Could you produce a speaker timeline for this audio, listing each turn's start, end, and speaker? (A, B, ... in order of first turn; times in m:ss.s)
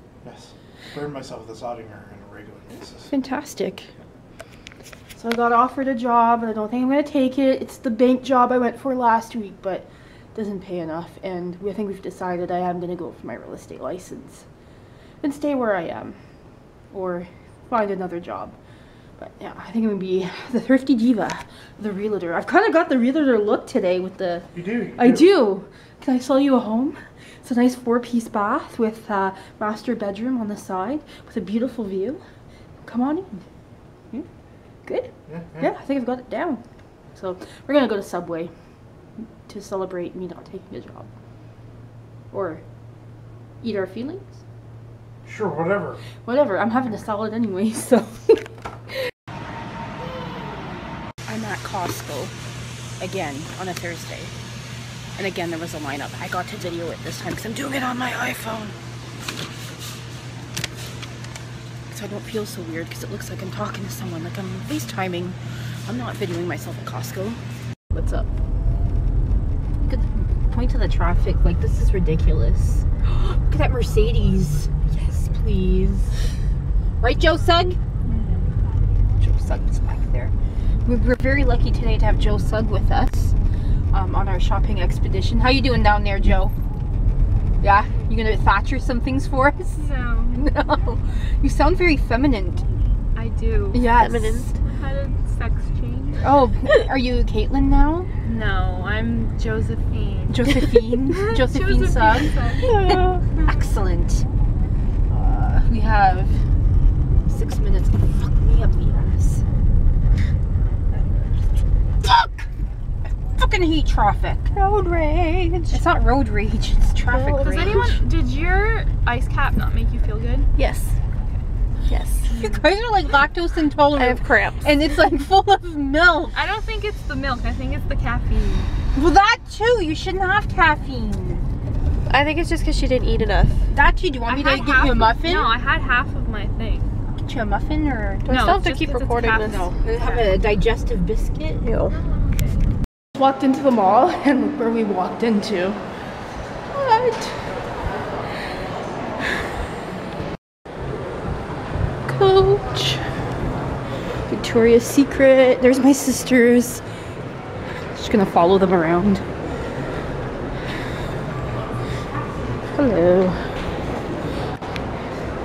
0:00.2-0:03.1 A
0:03.1-0:03.9 B
0:05.1-0:14.5 B
0:15.2-0:16.2 B
0:16.9-0:18.5 B
0:19.2-0:32.2 B
0:24.5-0:25.3 A
0:32.8-0:33.4 B
0:34.8-0:36.6 B
0:35.3-0:35.7 A
0:37.1-0:38.5 B
0:39.4-0:41.1 B
0:42.3-0:42.6 B
0:43.6-0:44.4 B
0:45.2-0:46.0 A
0:46.2-0:48.4 B
0:51.2-0:52.3 B
0:53.0-0:54.3 B
0:55.2-0:58.8 B
1:01.9-1:07.4 B
1:07.9-1:08.3 B
1:09.8-1:16.2 B
1:17.0-1:17.8 B
1:19.2-1:20.3 B
1:20.8-1:23.4 B
1:23.9-1:26.5 B
1:27.6-1:32.6 B
1:29.8-1:30.4 C
1:33.1-1:33.8 C
1:33.7-1:34.5 B
1:33.9-1:34.5 D
1:34.6-1:36.2 C
1:36.2-1:38.1 B
1:38.2-1:40.4 C
1:40.3-1:44.2 B
1:41.1-1:42.7 C
1:42.5-1:43.2 D
1:45.1-1:46.4 B
1:47.2-1:49.4 B
1:50.9-1:51.4 B
1:52.0-1:52.4 B
1:53.4-1:54.6 B
1:54.6-1:55.8 D
1:55.7-1:58.0 B
1:57.1-1:57.9 D
1:57.4-2:00.5 C
2:00.6-2:00.9 D
2:01.9-2:02.3 D
2:02.3-2:06.4 B
2:02.3-2:02.6 C
2:03.9-2:04.6 D
2:06.3-2:08.7 C
2:08.9-2:11.4 B
2:12.1-2:13.6 D
2:13.7-2:15.5 B
2:14.3-2:16.9 C
2:17.2-2:21.6 B
2:18.2-2:19.7 D
2:18.3-2:20.1 C
2:21.6-2:22.0 D
2:23.1-2:25.8 B
2:26.7-2:27.5 B
2:32.0-2:33.0 B
2:34.3-2:36.8 B
2:37.9-2:39.2 B
2:42.7-2:43.6 B